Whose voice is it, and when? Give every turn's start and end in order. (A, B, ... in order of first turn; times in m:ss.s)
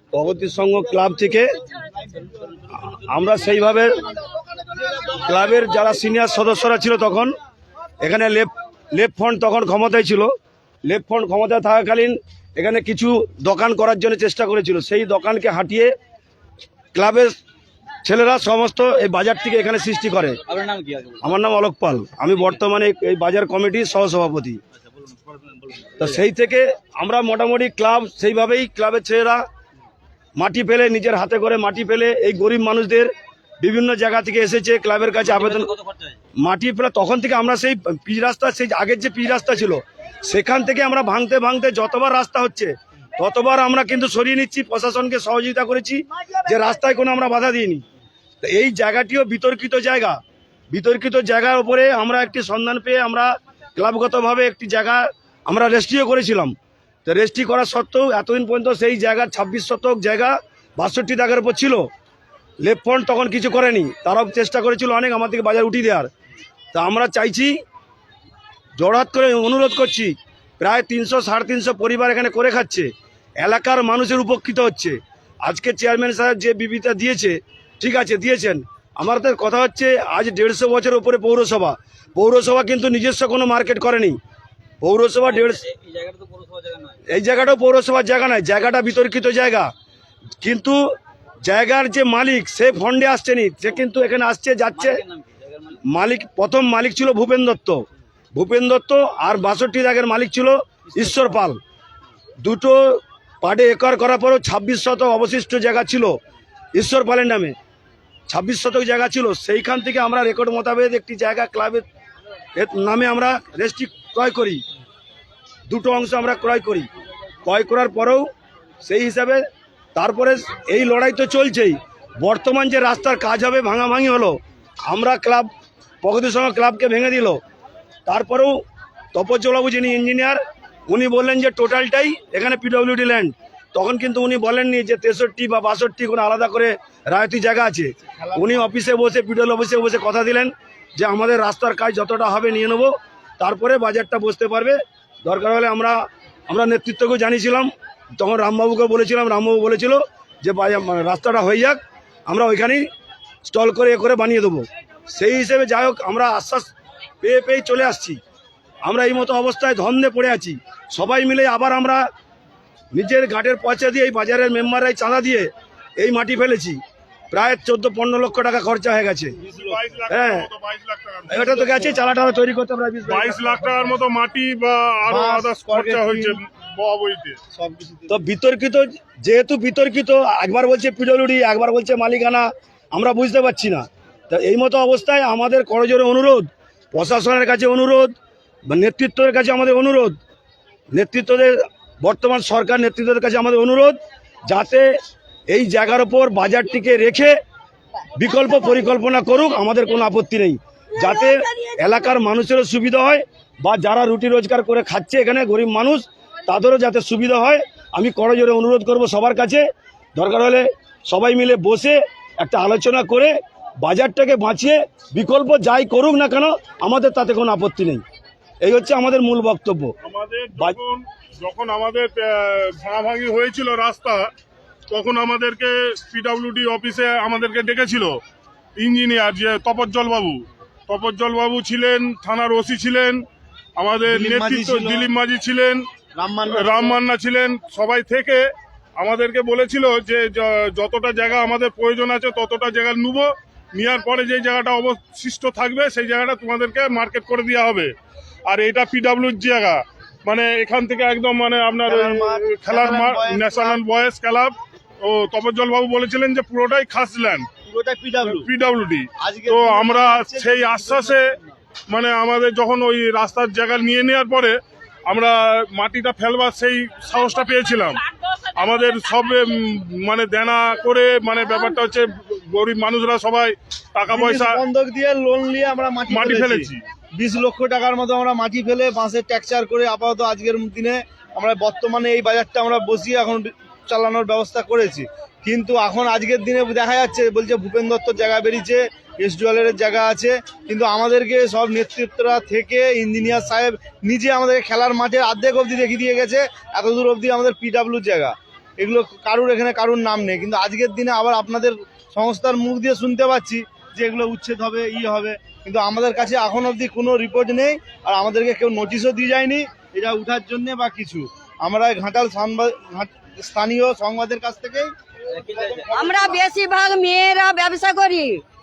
0:00.1-0:01.5 A
0:02.8-0:04.0 A
0:05.2-0:07.3 A
0:08.0-0:10.3 A
0:10.9-0:15.9 A
0:17.0-0:17.4 A
0:18.0-0:20.4 A
0:20.5-0:21.3 B
0:21.2-0:24.6 A
0:25.0-0:26.2 B
0:26.0-0:29.4 A
0:30.4-0:33.1 A
0:33.6-0:35.7 A
0:35.2-0:36.2 B
0:36.4-0:47.8 A
0:48.4-0:50.2 A
0:50.7-0:56.5 A
0:57.1-1:01.8 A
1:02.6-1:06.1 A
1:06.7-1:07.5 A
1:08.8-1:12.9 A
1:13.4-1:24.2 A
1:24.8-1:25.6 A
1:25.2-1:27.0 B
1:27.1-1:29.7 A
1:30.4-1:30.8 A
1:31.4-1:34.9 A
1:34.7-1:35.8 B
1:35.9-1:37.8 A
1:38.4-1:41.6 A
1:41.0-1:41.3 B
1:42.4-1:46.1 A
1:46.8-1:47.6 A
1:48.3-1:51.8 A
1:52.6-1:54.6 A
1:55.7-1:56.9 A
1:57.5-1:58.2 A
1:58.8-1:59.4 A
2:00.0-2:04.4 A
2:04.9-2:05.5 A
2:06.0-2:07.4 A
2:08.1-2:08.6 A
2:09.1-2:26.0 A
2:18.2-2:18.6 C
2:26.5-2:32.8 A
2:33.4-2:36.7 A
2:37.2-2:38.2 A
2:38.8-2:42.0 A
2:42.9-2:46.8 A
2:47.3-2:49.4 A
2:49.5-2:52.0 D
2:50.1-2:50.5 A
2:51.3-2:53.4 A
2:53.1-2:57.4 D
2:55.1-2:56.4 C
2:57.6-2:58.2 C
2:58.1-3:08.1 A
3:08.7-3:10.2 A
3:10.9-3:14.0 A
3:14.5-3:14.9 A
3:15.5-3:17.4 A
3:18.2-3:29.6 A
3:30.2-3:38.0 A
3:38.6-3:39.9 A
3:40.0-3:44.3 D
3:44.9-3:48.2 D
3:48.8-3:53.2 D
3:53.8-3:55.9 D
3:54.1-3:55.1 C
3:56.2-3:57.0 C
3:56.5-3:58.5 D
3:59.0-4:07.9 D
4:08.5-4:17.5 D
4:11.9-4:13.8 C
4:17.6-4:18.5 C
4:18.2-4:21.3 D
4:19.2-4:21.2 C
4:21.9-4:28.0 D
4:28.6-4:34.6 D
4:34.1-5:14.9 C
4:36.1-4:36.8 D
5:15.3-5:15.9 B
5:15.6-5:16.4 C
5:15.9-5:18.4 E